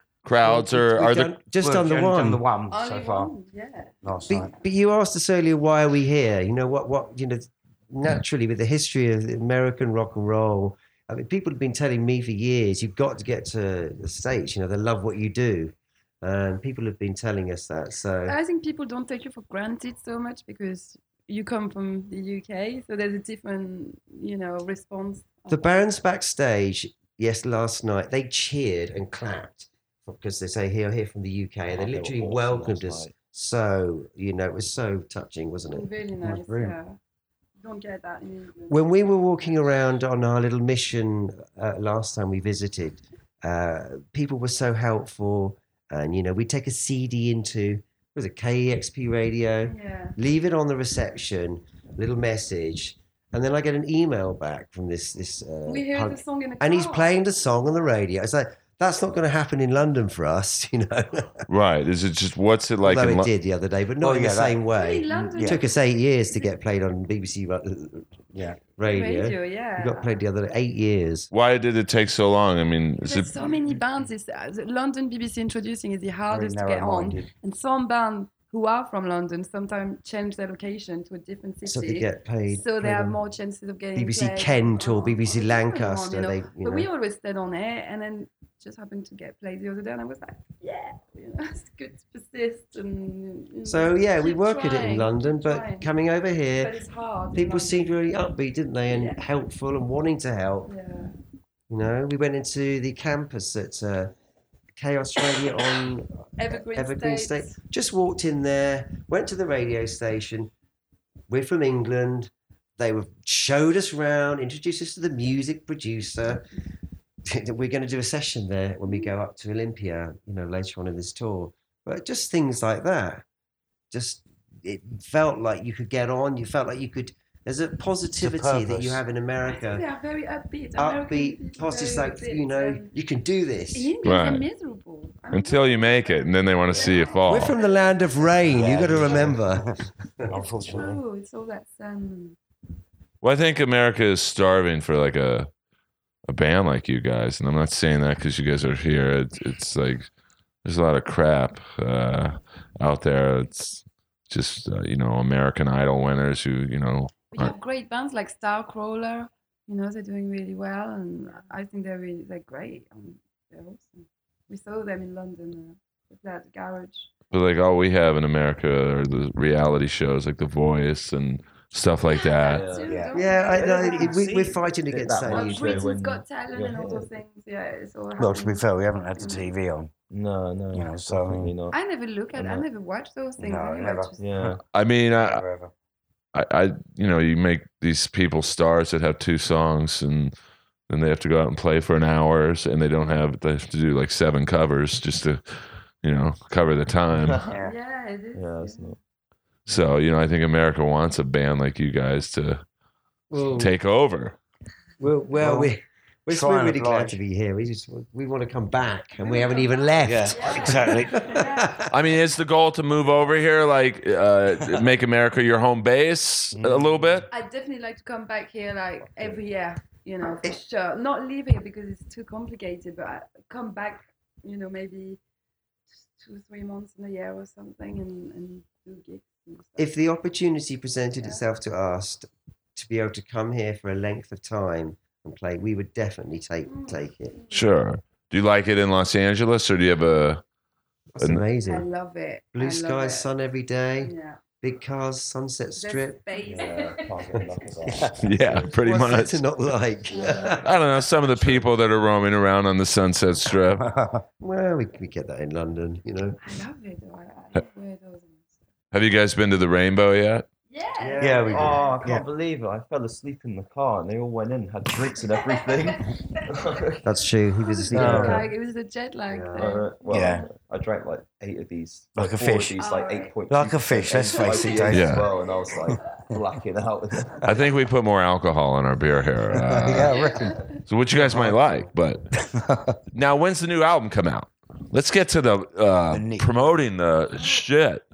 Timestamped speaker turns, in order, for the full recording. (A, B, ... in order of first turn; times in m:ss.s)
0:00.2-0:01.3 A
0:00.4-0:02.4 B
0:01.6-0:03.3 C
0:02.7-0:04.6 D
0:04.0-0:04.5 C
0:04.3-0:18.4 B
0:18.2-0:25.8 D
0:25.5-0:35.9 B
0:31.7-0:33.2 E
0:35.7-0:37.0 D
0:36.2-0:36.8 C
0:37.6-0:38.8 D
0:38.7-1:01.4 B
0:49.6-0:50.2 D
0:55.6-0:57.2 D
1:01.5-1:03.3 A
1:02.8-1:08.2 B
1:04.0-1:04.6 C
1:04.6-1:06.5 D
1:05.1-1:05.6 C
1:08.3-1:08.6 C
1:08.8-1:11.3 B
1:08.8-1:10.2 D
1:11.3-1:13.3 A
1:13.0-1:35.9 D
1:16.3-1:17.3 C
1:21.6-1:23.2 B
1:24.0-1:26.9 B
1:33.6-1:36.7 B
1:36.6-1:37.9 D
1:37.3-1:40.7 B
1:38.9-1:39.2 D
1:40.6-1:41.1 D
1:41.7-1:44.1 B
1:44.8-1:50.5 B
1:46.4-1:47.6 D
1:51.3-1:56.4 B
1:57.2-2:03.2 B
2:03.9-2:09.8 B
2:08.2-2:09.0 C
2:09.5-2:12.9 D
2:10.8-2:13.9 B
2:13.7-2:18.4 D
2:14.0-2:14.4 A
2:15.3-2:17.6 A
2:17.2-2:20.3 B
2:18.5-2:21.0 C
2:20.6-2:22.4 D
2:23.2-2:25.5 A
2:26.3-2:30.1 A
2:30.6-2:37.5 A
2:37.3-2:47.1 D
2:47.3-2:52.6 A
2:52.1-2:54.5 D
2:52.5-2:52.9 E
2:52.8-2:54.0 C
2:53.1-2:55.9 B
2:53.5-2:57.1 E
2:55.3-2:59.5 D
2:58.2-2:59.9 C
3:00.1-3:01.8 E
3:00.7-3:01.5 C
3:01.7-3:04.2 D
3:02.3-3:02.6 E
3:03.4-3:04.6 C
3:04.2-3:04.6 E
3:04.7-3:05.4 A
3:05.2-3:05.7 C
3:06.3-3:10.3 A
3:10.9-3:15.4 A
3:16.0-3:17.4 A
3:17.2-3:17.6 E
3:17.5-3:17.7 C
3:17.6-3:19.0 D
3:18.3-3:19.0 E
3:19.7-3:22.6 A
3:23.3-3:23.7 B
3:23.6-3:24.4 A
3:25.0-3:31.9 B
3:25.3-3:25.7 C
3:26.3-3:27.2 C
3:29.2-3:31.7 D
3:30.0-3:31.2 C
3:30.4-3:31.5 F
3:31.8-3:37.3 A
3:36.5-3:37.2 C
3:37.3-3:45.2 D
3:46.0-3:49.9 D
3:49.8-3:57.4 B
3:56.6-3:57.7 D
3:57.5-4:00.4 A
4:01.1-4:01.9 B
4:01.6-4:03.3 D
4:02.5-4:06.2 B
4:04.0-4:04.4 D
4:05.8-4:07.2 D
4:06.4-4:08.8 E
4:07.8-4:08.2 C
4:08.2-4:09.4 A
4:08.8-4:10.7 B
4:10.1-4:10.6 D
4:10.6-4:13.8 A
4:11.2-4:11.6 E
4:13.6-4:14.2 C
4:14.4-4:16.4 B
4:16.4-4:18.6 D
4:18.9-4:20.4 A
4:20.7-4:22.0 F
4:20.9-4:21.9 D
4:21.2-4:27.1 E
4:21.2-4:22.2 C
4:27.0-4:28.5 B
4:27.6-4:29.9 D
4:27.9-4:28.5 C
4:27.9-4:28.4 E
4:29.3-4:29.7 B
4:29.6-4:37.5 E
4:30.1-4:30.4 C
4:32.2-4:32.8 C
4:32.8-4:33.3 D
4:33.5-4:35.2 C
4:34.3-4:35.9 D
4:34.9-4:35.3 A
4:37.4-4:40.2 A
4:39.5-4:40.6 C
4:40.2-4:40.6 D
4:40.8-4:42.2 A
4:41.1-4:41.6 C
4:42.4-4:43.0 C
4:43.1-4:48.0 A
4:46.1-4:46.5 C